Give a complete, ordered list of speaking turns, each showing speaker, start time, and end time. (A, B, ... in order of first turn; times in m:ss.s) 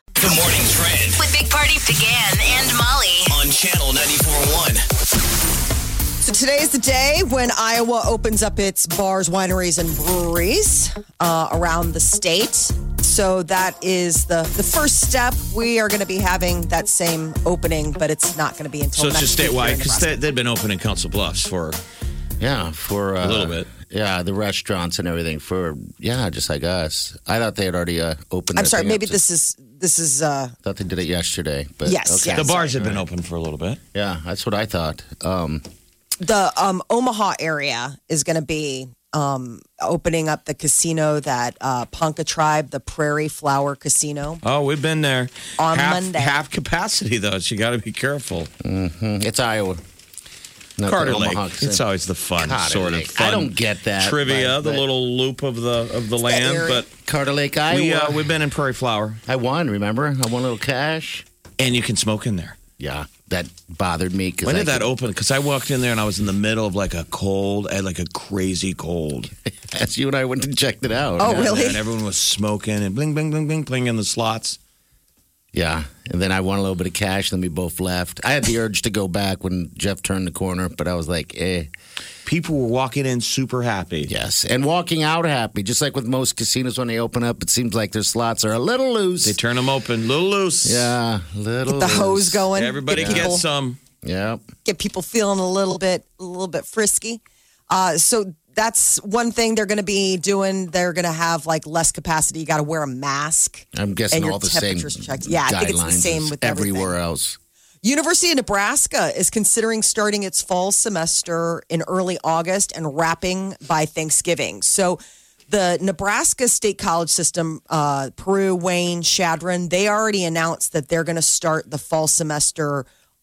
0:00.2-0:01.2 A
0:01.2-0:03.4 B
0:03.3-0:04.8 A
0:06.2-0:20.2 C
0:19.0-0:21.8 D
0:22.4-0:29.2 E
0:23.2-0:23.7 D
0:28.6-0:30.5 C
0:30.6-0:33.1 E
0:31.8-0:32.6 C
0:32.3-0:33.8 D
0:33.9-0:35.6 E
0:36.2-0:44.4 C
0:44.4-0:48.5 D
0:45.6-0:46.4 C
0:48.6-0:49.8 E
0:50.8-0:51.8 E
0:50.8-0:56.9 D
0:52.4-0:54.8 E
0:56.2-0:56.8 C
0:57.0-0:58.2 E
0:57.7-0:59.2 D
0:59.3-1:01.2 E
1:01.6-1:02.6 D
1:02.8-1:04.9 E
1:04.4-1:09.3 D
1:09.7-1:11.6 E
1:11.2-1:11.8 C
1:11.2-1:14.6 D
1:15.5-1:21.7 E
1:22.2-1:24.1 D
1:24.1-1:29.4 E
1:29.2-1:30.9 D
1:30.6-1:33.3 E
1:31.7-1:33.4 C
1:32.5-1:33.8 D
1:34.0-1:34.4 E
1:34.6-1:46.9 C
1:43.7-1:47.4 E
1:47.8-2:02.8 C